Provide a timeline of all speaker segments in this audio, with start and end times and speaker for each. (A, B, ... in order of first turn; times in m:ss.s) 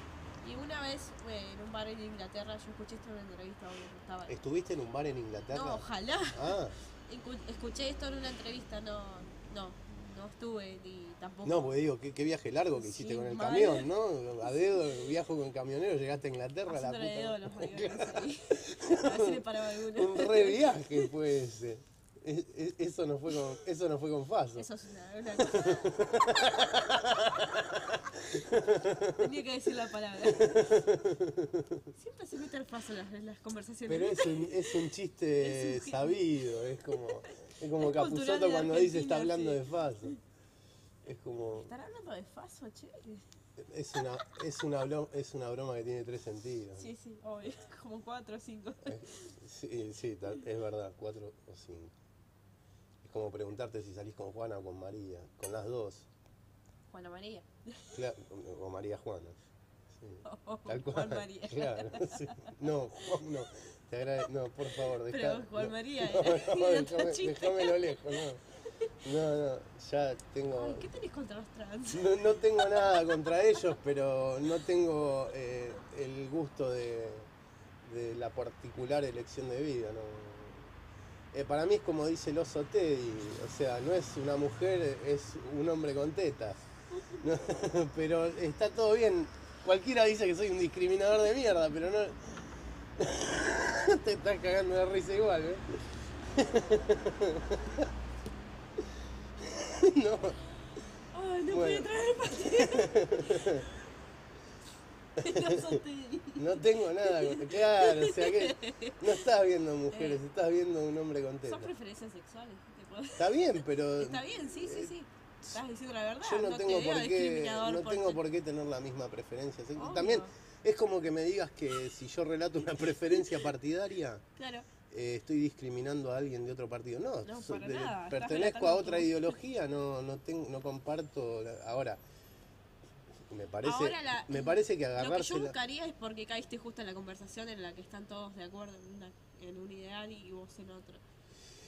0:00.4-0:04.3 A
0:04.3-0:06.8 B
0:05.5-0:11.8 A
0:11.4-0:24.7 B
0:12.8-0:13.9 A
0:14.5-0:15.0 A
0:16.7-0:21.2 A
0:24.6-0:27.6 A
0:25.4-0:29.2 B
0:29.2-0:30.9 A
0:30.3-0:31.9 B
0:32.0-0:40.2 A
0:33.9-0:40.2 B
0:41.0-0:41.7 B
0:41.5-0:43.2 A
0:43.6-0:46.9 B
0:46.8-0:49.3 A
0:48.9-0:51.9 B
0:53.0-0:56.1 B
0:56.9-0:57.9 A
0:57.9-0:59.4 B
0:59.9-1:08.4 B
1:00.2-1:02.5 A
1:04.8-1:08.3 A
1:09.0-1:10.9 B
1:10.6-1:13.3 A
1:11.9-1:17.3 B
1:17.8-1:20.7 B
1:21.3-1:26.6 B
1:26.9-1:27.2 A
1:27.2-1:32.4 B
1:33.0-1:35.6 B
1:36.3-1:37.9 B
1:39.5-1:40.4 B
1:41.1-1:43.6 A
1:41.5-1:43.6 B
1:45.2-1:49.2 A
1:45.2-1:45.8 B
1:46.4-1:51.7 B
1:49.9-1:50.2 A
1:51.4-1:58.2 A
1:53.2-1:54.9 B
1:56.2-2:04.2 B
1:59.8-2:00.3 A
2:04.4-2:04.7 A
2:04.9-2:12.0 B
2:07.2-2:09.4 A
2:13.3-2:15.6 B
2:13.6-2:21.0 A